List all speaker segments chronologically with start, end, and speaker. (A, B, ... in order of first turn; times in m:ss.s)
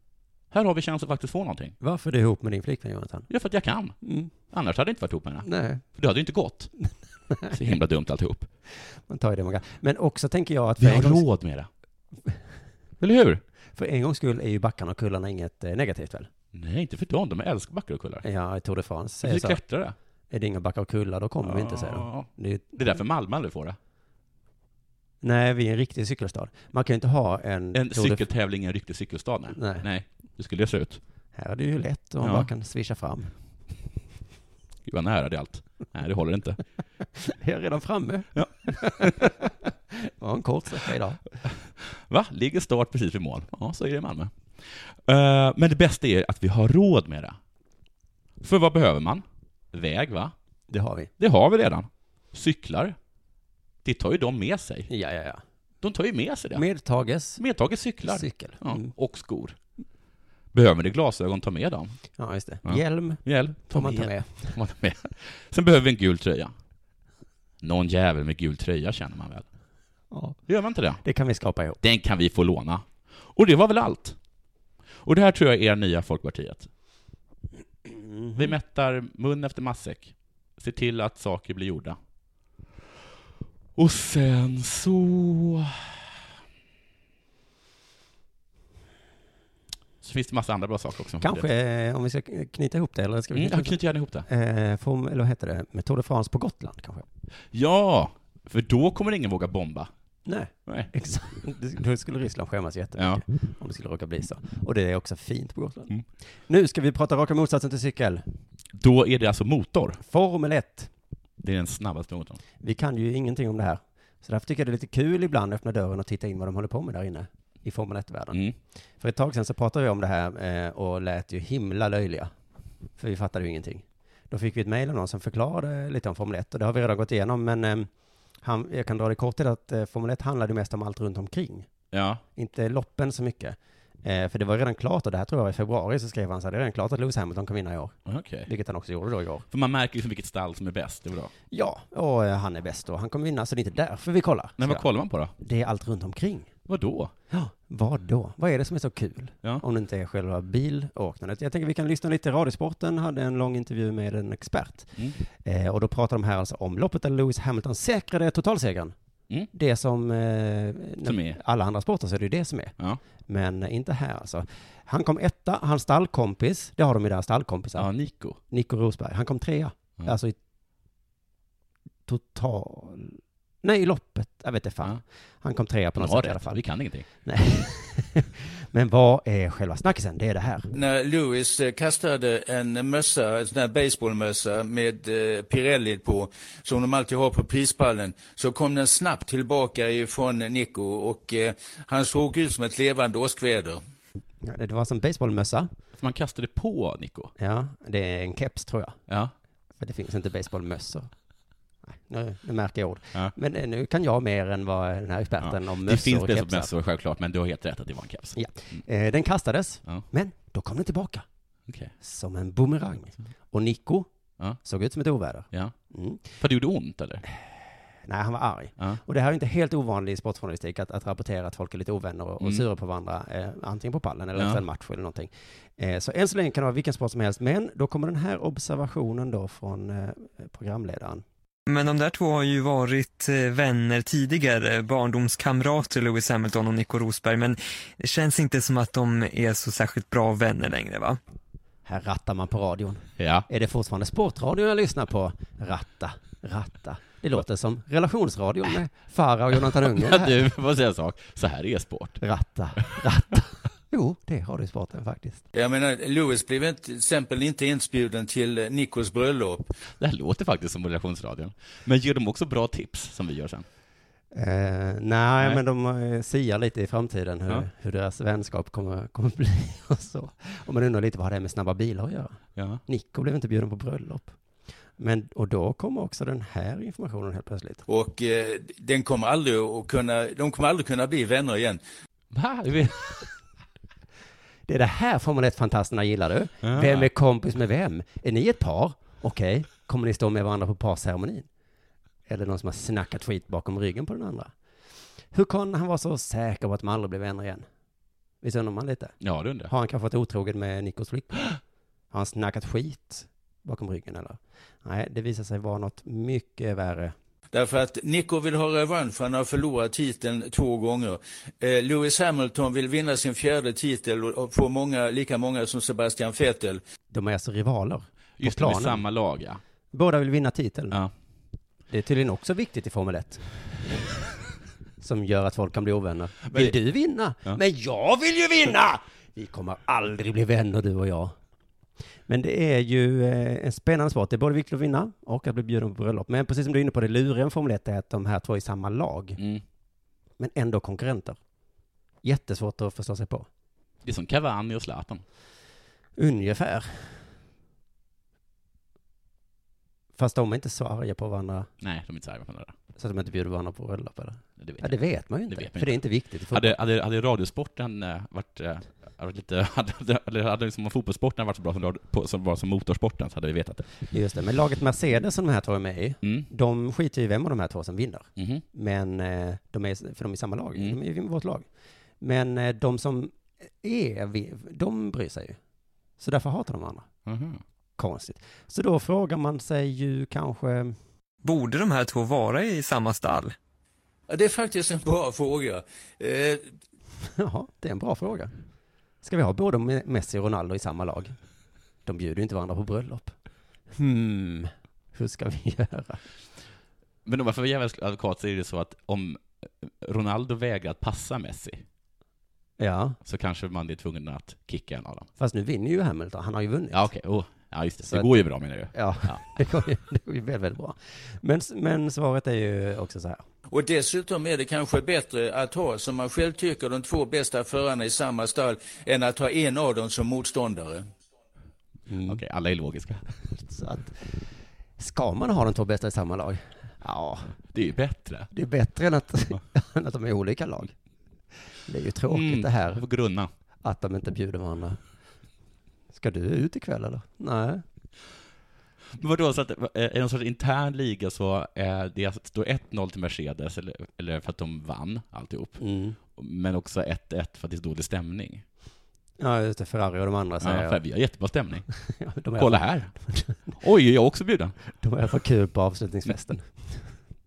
0:00.5-0:01.8 A
0:01.8-0:03.3 B
0:03.3-0:06.7 A
0:04.0-0:04.3 B
0:05.4-0:05.8 B
0:07.5-0:08.5 A
0:08.8-0:11.3 B
0:10.8-0:11.7 A
0:13.0-0:13.4 A
0:13.8-0:16.3 B
0:16.5-0:18.2 A
0:18.2-0:19.6 B
0:19.2-0:20.0 A
0:20.3-0:22.8 B
0:21.4-0:23.8 A
0:25.2-0:28.3 B
0:27.7-0:31.0 A
0:29.5-0:29.8 B
0:31.3-0:33.3 B
0:32.2-0:32.5 A
0:34.8-0:36.6 A
0:37.2-0:41.2 B
0:38.4-0:39.2 A
0:41.4-0:47.4 A
0:48.4-0:50.3 A
0:50.7-0:51.1 B
0:51.2-0:53.0 A
0:53.8-0:54.9 A
0:54.9-0:55.4 B
0:55.8-0:56.6 A
0:56.5-0:57.4 B
0:57.4-0:59.6 A
0:58.0-0:58.9 B
1:00.5-1:02.0 A
1:02.2-1:04.6 B
1:02.6-1:06.5 A
1:07.6-1:09.5 A
1:10.1-1:10.4 B
1:10.5-1:11.0 A
1:11.0-1:11.8 B
1:11.8-1:14.2 A
1:15.0-1:16.7 A
1:17.9-1:18.5 B
1:18.4-1:22.0 A
1:23.8-1:25.9 A
1:30.0-1:31.5 A
1:31.2-1:37.1 B
1:33.3-1:34.3 A
1:37.5-1:39.9 A
1:40.3-1:48.2 B
1:43.0-1:43.2 A
1:48.7-1:50.0 A
1:50.0-1:50.9 B
1:51.4-1:52.4 A
1:52.6-1:58.4 B
1:59.0-2:02.3 B
2:03.0-2:07.9 B
2:08.4-2:11.7 B
2:11.9-2:12.2 A
2:12.4-2:19.4 B
2:18.1-2:18.5 A
2:19.5-2:21.3 A
2:21.5-2:24.9 B
2:24.6-2:25.3 A
2:25.4-2:26.5 B
2:26.7-2:27.1 A
2:27.3-2:38.9 B
2:39.5-2:42.8 B
2:41.0-2:41.4 A
2:43.3-2:47.9 B
2:47.8-2:48.4 A
2:48.5-2:50.4 B
2:52.1-2:56.6 B
2:56.0-2:57.1 A
2:57.2-3:00.7 B
3:00.7-3:13.8 C
3:14.4-3:15.7 B
3:16.0-3:17.3 A
3:17.4-3:19.0 B
3:19.1-3:19.3 A
3:19.8-3:21.1 B
3:21.9-3:26.7 B
3:25.4-3:28.8 A
3:28.4-3:31.2 B
3:31.7-3:31.9 A
3:32.0-3:34.1 B
3:34.6-3:36.3 B
3:36.3-3:37.2 A
3:38.0-3:51.2 B
3:44.4-3:44.6 A
3:51.7-4:01.2 D
4:01.8-4:10.4 B
4:03.2-4:03.5 A
4:09.7-4:12.2 A
4:12.2-4:15.4 B
4:15.6-4:19.7 C
4:19.9-4:23.7 A
4:24.3-4:34.4 B
4:32.6-4:32.8 A
4:35.0-4:37.8 B
4:37.9-4:41.8 C
4:42.3-4:43.2 A
4:44.7-4:51.5 B
4:46.6-4:47.1 A
4:52.3-4:54.5 B
4:55.3-4:57.7 B
4:58.4-4:59.2 B
4:59.2-4:59.7 A
4:59.7-5:01.6 B
5:02.1-5:07.2 B
5:07.5-5:16.8 C
5:17.1-5:19.0 B
5:18.4-5:19.6 A
5:19.9-5:21.0 B
5:21.9-5:23.4 B
5:25.0-5:31.4 B
5:26.5-5:26.8 A
5:32.3-5:39.4 B
5:39.4-5:39.6 A
5:40.4-5:41.4 B
5:42.2-5:43.5 B
5:44.0-5:45.2 A
5:46.2-5:47.2 B
5:50.2-5:51.7 B
5:51.8-5:52.7 A
5:53.0-5:56.8 B
5:54.6-6:03.9 A
6:04.1-6:11.7 B
6:06.2-6:06.5 A
6:08.4-6:08.6 A
6:12.2-6:15.6 B
6:16.2-6:17.1 B
6:17.3-6:17.6 A
6:18.0-6:21.0 B
6:21.4-6:23.6 D
6:24.3-6:26.7 C
6:27.3-6:28.5 B
6:29.2-6:31.4 B
6:32.1-6:33.4 B
6:33.9-6:36.2 B
6:37.2-6:41.8 A
6:42.8-6:43.2 B
6:43.2-6:45.3 A
6:45.4-6:47.1 B
6:46.9-6:49.4 A
6:48.1-6:48.4 B
6:48.9-6:53.4 B
6:53.7-7:01.1 C
7:02.1-7:02.4 B
7:02.3-7:03.3 A
7:03.5-7:07.6 B
7:07.7-7:08.5 A
7:08.5-7:11.0 B
7:11.8-7:13.0 B
7:12.3-7:13.5 A
7:13.8-7:15.0 B
7:16.1-7:17.8 B
7:19.1-7:28.6 A
7:25.8-7:26.2 B
7:29.4-7:31.0 B
7:30.6-7:31.9 A
7:32.0-7:33.8 B
7:32.6-7:33.2 A
7:33.8-7:34.7 A
7:35.0-7:37.1 B